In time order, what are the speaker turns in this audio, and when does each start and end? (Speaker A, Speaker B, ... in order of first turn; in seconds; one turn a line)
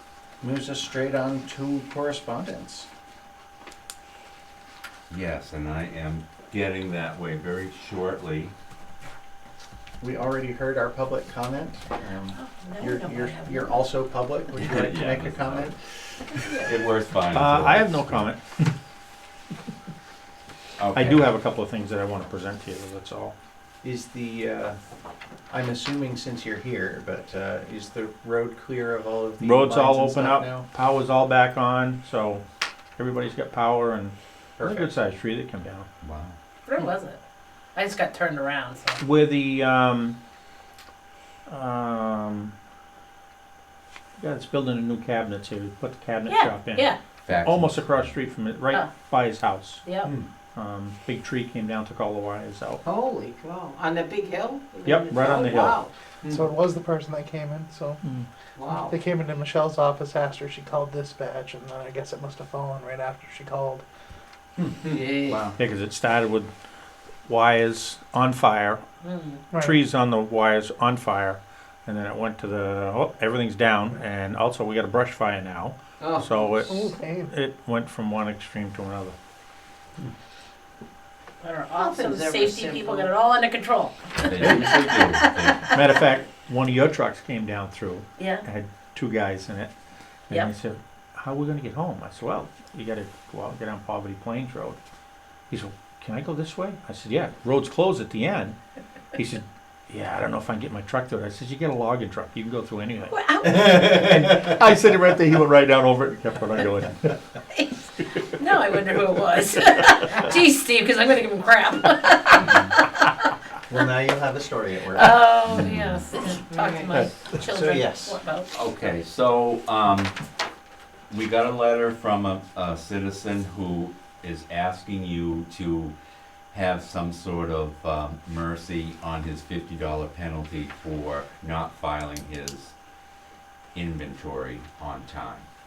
Speaker A: 0.4-2.9
Speaker B: 5.1-8.5
Speaker A: 10.0-15.7
Speaker C: 12.3-13.9
Speaker B: 14.6-18.3
Speaker C: 16.4-16.8
Speaker D: 17.3-18.6
Speaker B: 20.8-21.2
Speaker D: 20.9-23.3
Speaker A: 23.8-24.8
Speaker A: 25.5-30.7
Speaker D: 29.4-32.4
Speaker D: 33.0-35.9
Speaker A: 34.6-34.9
Speaker B: 36.0-36.4
Speaker C: 36.6-37.2
Speaker C: 37.7-39.0
Speaker D: 39.0-40.1
Speaker D: 41.5-42.5
Speaker D: 44.2-46.9
Speaker C: 46.3-47.0
Speaker B: 47.2-48.1
Speaker D: 47.4-49.9
Speaker C: 49.8-50.1
Speaker D: 50.5-52.8
Speaker E: 52.8-55.9
Speaker D: 54.8-55.8
Speaker F: 56.3-58.0
Speaker D: 58.0-58.3
Speaker E: 58.6-58.9
Speaker F: 58.8-63.8
Speaker A: 64.6-65.5
Speaker E: 64.8-65.5
Speaker D: 65.6-66.5
Speaker D: 67.3-68.8
Speaker C: 69.0-69.4
Speaker D: 69.5-79.1
Speaker E: 76.0-76.4
Speaker F: 76.6-77.3
Speaker C: 81.4-85.6
Speaker E: 81.7-83.1
Speaker B: 84.3-85.7
Speaker D: 84.4-84.7
Speaker D: 85.7-89.7
Speaker C: 88.2-88.4
Speaker D: 90.3-94.8
Speaker D: 95.5-98.6
Speaker D: 99.1-107.2
Speaker C: 103.1-104.1
Speaker C: 107.5-107.8
Speaker C: 108.3-113.3
Speaker A: 113.7-115.2
Speaker C: 114.9-118.7
Speaker B: 115.6-116.0
Speaker E: 116.5-117.0
Speaker A: 117.4-118.2
Speaker B: 118.5-120.1
Speaker B: 121.1-125.9
Speaker B: 126.5-132.7
Speaker B: 133.7-135.5